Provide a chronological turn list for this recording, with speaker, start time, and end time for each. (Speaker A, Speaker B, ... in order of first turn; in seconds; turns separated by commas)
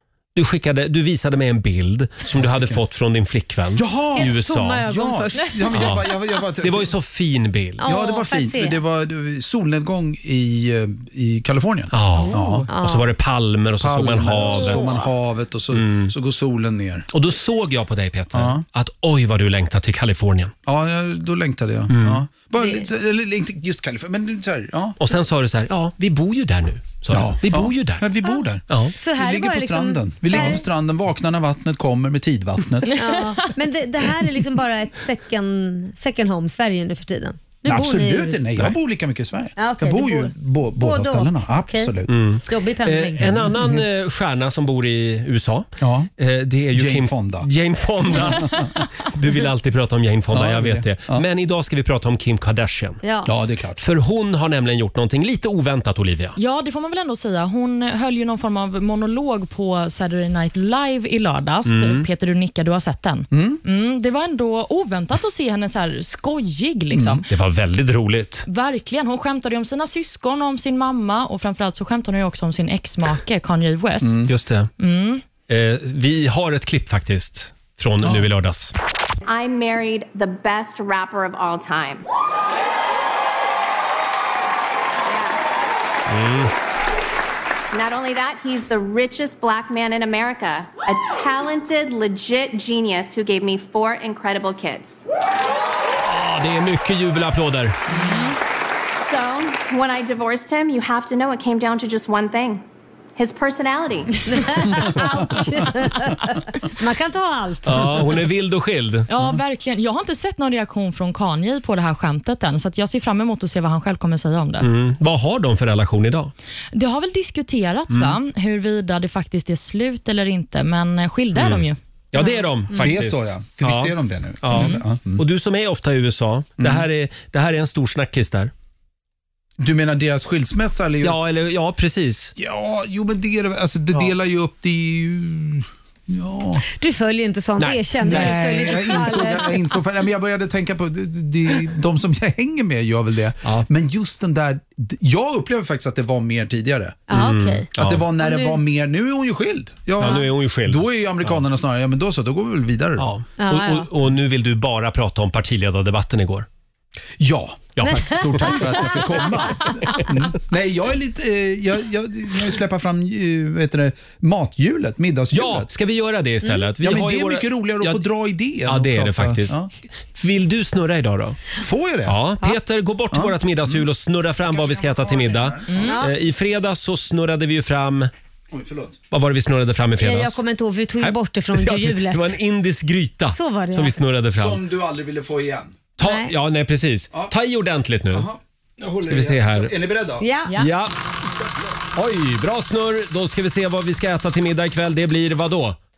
Speaker A: 0.3-4.8, Speaker B: 2.3-2.8, Speaker B: 3.7-6.9, Speaker C: 4.1-6.0, Speaker A: 5.7-6.0, Speaker A: 6.6-7.8, Speaker C: 7.8-8.8, Speaker B: 7.8-12.7, Speaker A: 11.9-15.0, Speaker C: 12.3-13.1, Speaker B: 13.8-17.1, Speaker C: 14.5-15.1, Speaker A: 15.7-16.1, Speaker A: 17.1-20.5, Speaker B: 18.3-18.6, Speaker B: 20.6-25.0, Speaker A: 21.9-22.2, Speaker C: 22.6-22.9, Speaker A: 25.0-28.1, Speaker B: 27.1-33.0, Speaker A: 28.7-28.9, Speaker C: 28.9-30.6, Speaker C: 32.9-38.6, Speaker B: 37.6-42.1, Speaker C: 39.5-42.0, Speaker A: 42.1-45.7, Speaker C: 42.5-43.5, Speaker B: 43.4-43.8, Speaker B: 45.8-46.1, Speaker A: 46.2-53.0, Speaker B: 46.7-47.5, Speaker B: 48.1-48.7, Speaker B: 50.3-51.2, Speaker C: 53.0-53.3, Speaker B: 53.2-53.8, Speaker A: 53.8-56.4, Speaker D: 56.4-67.2, Speaker A: 61.6-62.0, Speaker B: 63.3-63.6, Speaker B: 66.9-67.2, Speaker A: 67.3-68.5, Speaker D: 68.5-75.2, Speaker B: 74.0-74.3, Speaker A: 74.3-74.7, Speaker A: 75.5-78.7, Speaker B: 78.0-78.3, Speaker E: 79.2-82.0, Speaker A: 86.1-86.5, Speaker E: 87.7-95.0, Speaker A: 96.0-97.8, Speaker D: 97.9-98.3, Speaker E: 99.0-102.6, Speaker E: 103.2-105.2, Speaker C: 104.3-108.0, Speaker A: 107.7-109.1, Speaker D: 109.1-114.7, Speaker A: 114.6-116.3, Speaker D: 116.7-121.8, Speaker A: 117.9-118.2, Speaker A: 121.3-128.5, Speaker C: 122.2-122.8, Speaker B: 122.8-125.2, Speaker B: 126.6-126.8, Speaker B: 129.6-131.2, Speaker A: 131.0-132.3, Speaker B: 132.3-136.6, Speaker C: 136.7-139.7, Speaker A: 137.6-139.2, Speaker B: 138.0-147.0, Speaker C: 147.1-148.6, Speaker A: 147.1-148.1, Speaker B: 147.8-153.1, Speaker A: 150.0-151.4, Speaker A: 153.0-156.5, Speaker C: 153.4-153.9, Speaker B: 157.2-165.7, Speaker A: 157.8-160.0, Speaker C: 157.8-159.9, Speaker A: 165.3-168.1, Speaker B: 166.8-169.7, Speaker A: 168.6-169.6, Speaker A: 170.1-171.4, Speaker B: 171.6-172.2, Speaker A: 172.1-178.1, Speaker B: 173.1-173.8, Speaker B: 174.5-175.9, Speaker C: 175.8-176.1, Speaker B: 178.5-179.0, Speaker A: 179.1-180.4, Speaker C: 180.0-182.4, Speaker A: 181.0-184.6, Speaker C: 183.3-184.0, Speaker B: 184.3-185.8, Speaker A: 186.0-188.3, Speaker C: 186.0-186.3, Speaker B: 188.1-190.2, Speaker A: 189.1-189.7, Speaker C: 190.2-190.7, Speaker A: 190.6-190.9, Speaker A: 191.9-195.8